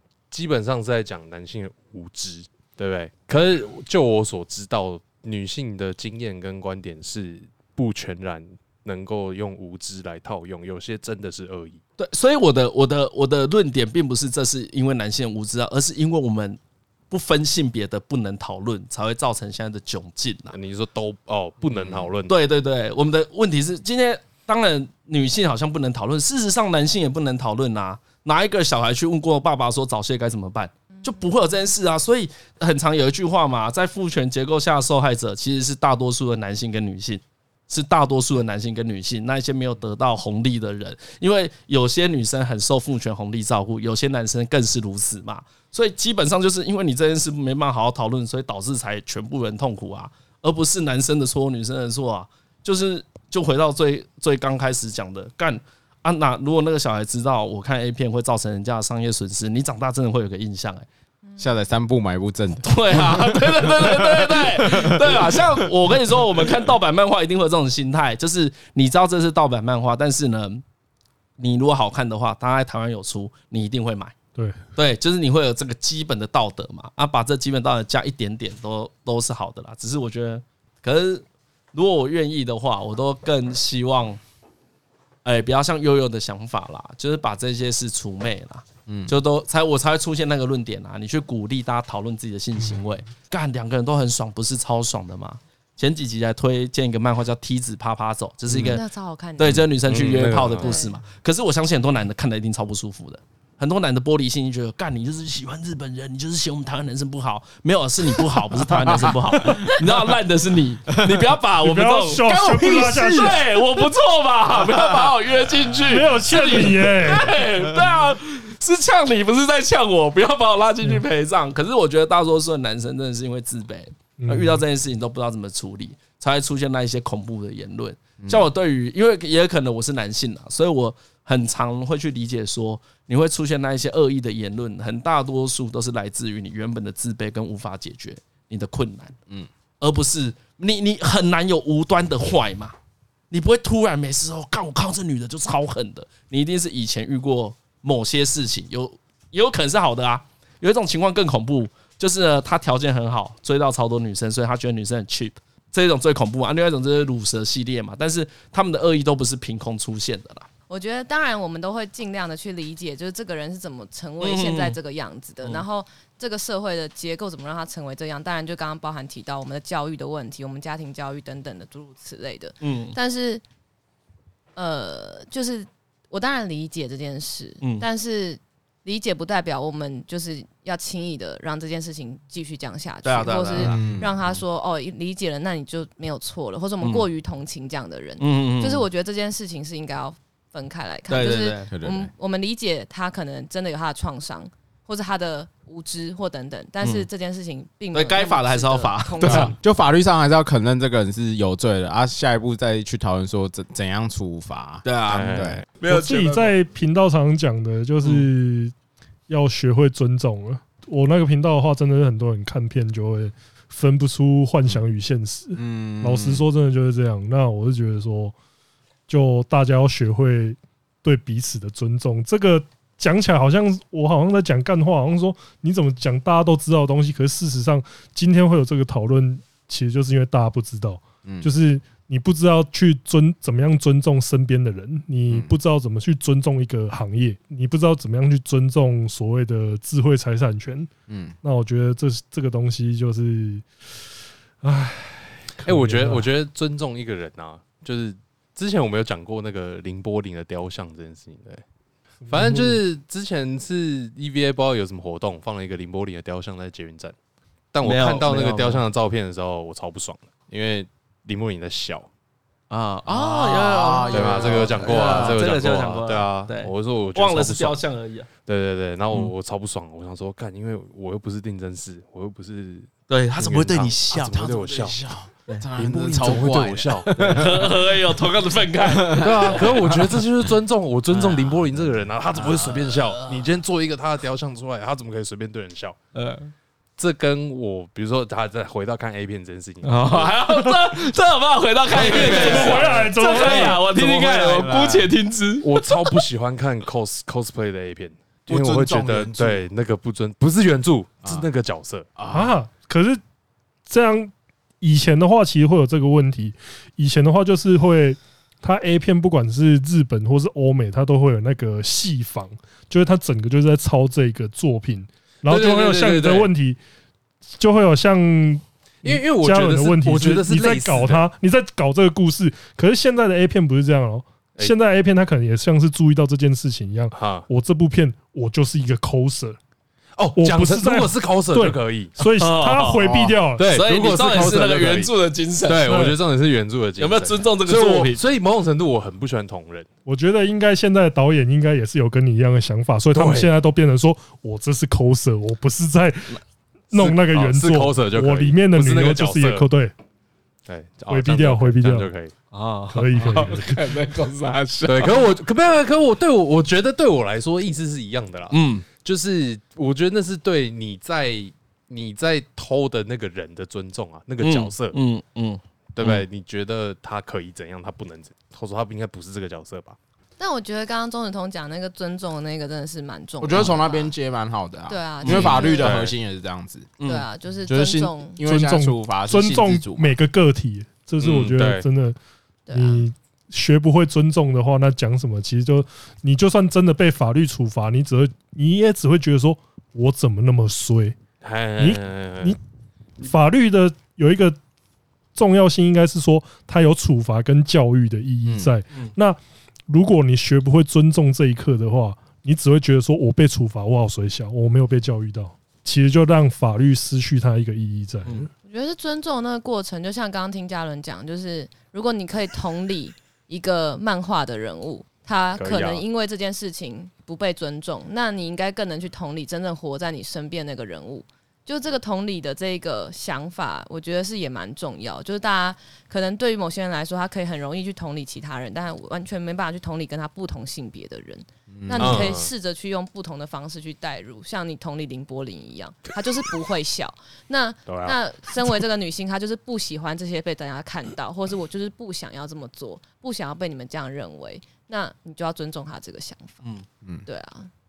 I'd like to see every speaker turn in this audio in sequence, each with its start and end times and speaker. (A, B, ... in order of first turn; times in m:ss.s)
0:00.3-0:11.8 A
0:12.0-0:20.6 B
0:20.5-0:22.4 A
0:22.2-1:00.8 B
1:01.4-1:05.6 C
1:02.6-1:10.6 B
1:11.4-1:14.2 B
1:14.3-1:14.6 D
1:14.7-1:24.2 B
1:25.2-1:38.8 B
1:28.9-1:29.2 C
1:38.6-1:39.6 E
1:39.4-2:19.2 B
1:39.8-1:40.8 A
1:40.2-1:40.9 E
1:48.7-1:49.8 C
1:50.9-1:51.2 C
1:51.6-1:53.4 D
1:52.2-1:53.4 C
1:54.7-1:55.1 C
1:55.8-1:57.4 D
2:04.2-2:04.6 D
2:08.2-2:08.4 C
2:19.8-2:22.7 B
2:23.3-2:40.5 B
2:40.7-2:53.4 E
2:44.2-2:44.8 B
2:52.6-2:53.0 B
2:54.6-3:19.6 E
2:57.6-2:57.8 B
3:03.0-3:03.8 B
3:03.6-3:04.2 C
3:06.8-3:07.0 B
3:08.2-3:08.8 B
3:11.1-3:11.7 B
3:11.7-3:12.1 C
3:16.8-3:17.1 B
3:17.9-3:19.5 B
3:19.2-3:25.6 C
3:24.8-3:26.5 B
3:25.1-3:25.6 A
3:25.8-3:28.7 D
3:29.3-3:38.3 D
3:35.6-3:36.4 C
3:39.1-4:00.9 D
3:55.3-3:55.5 C
4:01.1-4:01.3 C
4:01.4-4:03.6 D
4:04.6-4:06.3 D
4:05.6-4:11.6 A
4:12.3-4:12.8 D
4:12.3-4:17.1 A
4:17.7-4:22.1 A
4:17.8-4:18.8 B
4:22.7-4:28.3 B
4:23.0-4:25.4 C
4:24.1-4:27.8 A
4:28.4-4:35.0 A
4:33.1-4:35.6 B
4:35.0-4:37.8 C
4:35.7-4:37.5 A
4:37.2-4:39.9 B
4:38.8-4:40.1 C
4:39.1-4:46.0 A
4:41.1-4:41.5 B
4:42.5-4:43.4 B
4:46.1-4:46.5 B
4:47.0-4:50.4 A
4:49.8-4:56.2 B
4:51.9-4:53.8 A
4:51.9-4:52.8 C
4:52.1-4:53.8 D
4:53.4-4:55.1 C
4:55.6-5:02.1 A
4:58.5-4:59.7 C
5:02.2-5:02.5 C
5:02.3-5:03.2 D
5:03.8-5:16.8 D
5:15.5-5:16.5 A
5:17.6-5:29.6 D
5:19.0-5:21.2 A
5:27.1-5:27.5 A
5:30.2-5:32.1 A
5:30.3-5:33.6 D
5:32.4-5:33.1 B
5:33.0-5:33.3 C
5:33.6-5:35.1 A
5:33.6-5:36.1 B
5:35.6-5:39.9 A
5:35.8-5:36.1 D
5:37.0-5:38.2 B
5:40.0-5:46.4 D
5:43.1-5:43.5 A
5:46.9-5:49.9 D
5:46.9-5:49.7 A
5:50.6-5:52.3 A
5:51.1-5:52.1 D
5:52.5-5:55.3 B
5:52.9-5:53.8 D
5:54.8-6:05.0 A
5:58.5-5:58.8 B
6:04.4-6:06.2 B
6:06.0-6:10.0 A
6:10.4-6:14.1 E
6:13.4-6:17.0 C
6:14.9-6:16.0 E
6:15.2-6:16.1 A
6:17.0-6:17.2 B
6:17.0-6:18.4 E
6:17.7-6:20.1 C
6:18.4-6:22.2 D
6:21.2-6:21.8 A
6:22.7-6:23.0 E
6:22.7-6:31.2 D
6:31.4-6:32.6 A
6:31.8-6:32.6 D
6:33.2-6:34.6 D
6:35.3-6:48.5 D
6:48.6-7:26.6 E
6:55.6-6:56.0 A
7:11.7-7:12.3 C
7:12.0-7:12.5 A
7:17.9-7:18.2 A
7:27.2-7:27.7 E